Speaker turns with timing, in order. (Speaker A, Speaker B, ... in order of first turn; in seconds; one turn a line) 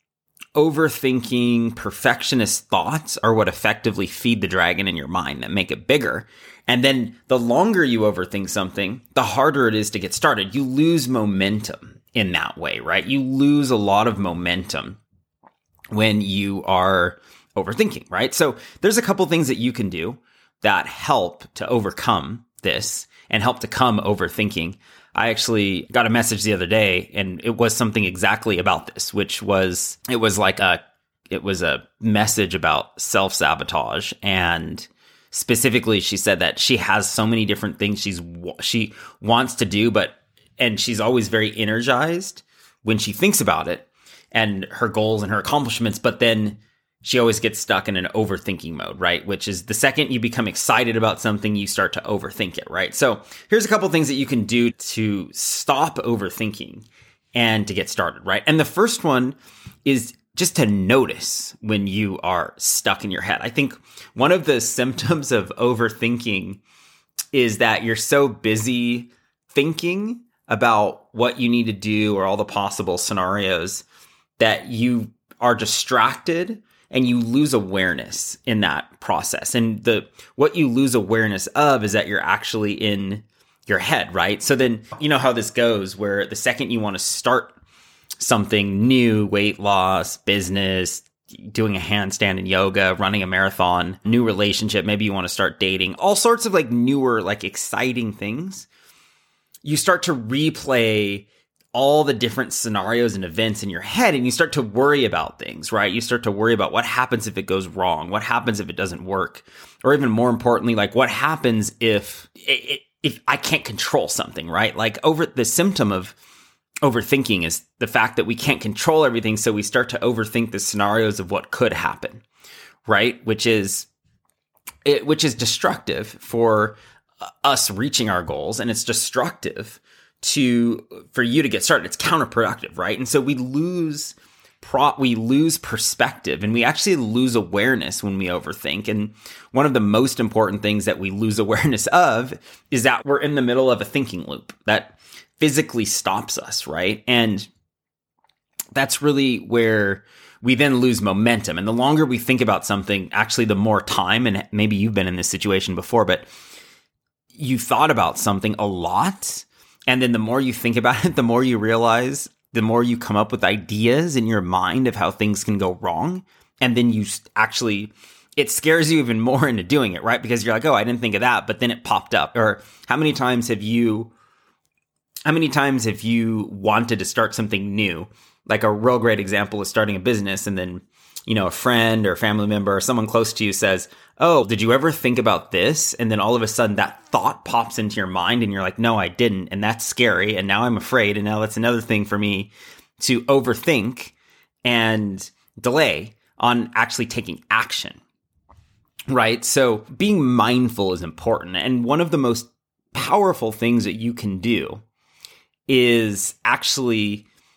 Speaker A: 0.6-15.0
Speaker A: 15.9-30.8
Speaker A: 31.3-66.6
Speaker A: 67.3-73.8
Speaker A: 74.4-87.6
Speaker A: 88.2-98.7
Speaker A: 99.6-116.2
Speaker A: 116.8-122.2
Speaker A: 122.9-123.9
Speaker A: 124.8-126.8
Speaker A: 127.4-147.5
Speaker A: 148.8-156.3
Speaker A: 157.3-174.1
Speaker A: 175.2-198.0
Speaker A: 199.1-204.8
Speaker A: 205.7-207.2